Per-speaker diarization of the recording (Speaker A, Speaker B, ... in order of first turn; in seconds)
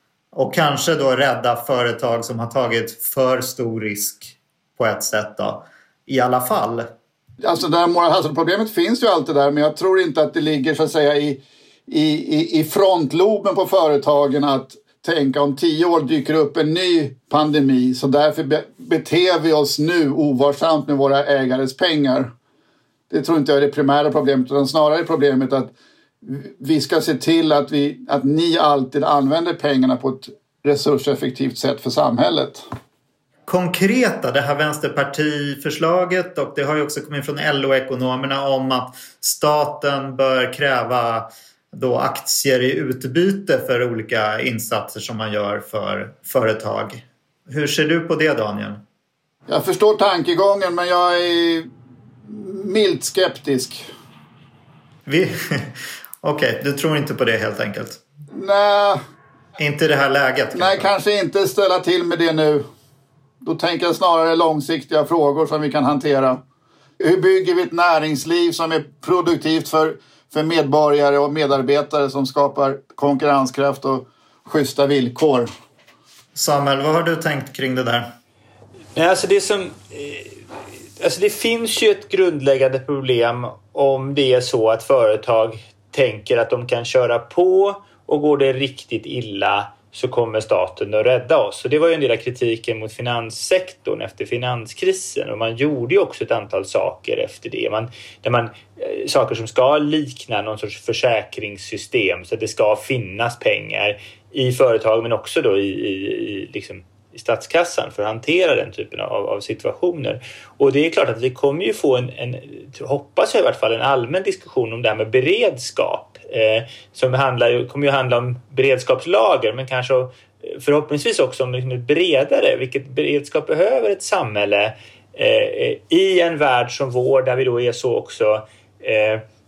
Speaker A: 0.3-6.9, 33.5-48.8, 55.1-58.0, 59.6-60.9, 76.3-78.1
Speaker B: 7.4-22.3, 23.1-32.6, 49.5-51.7, 52.3-53.9, 58.3-59.0, 60.5-62.6, 63.4-66.4, 67.0-75.5
Speaker C: 79.0-80.3, 81.0-129.2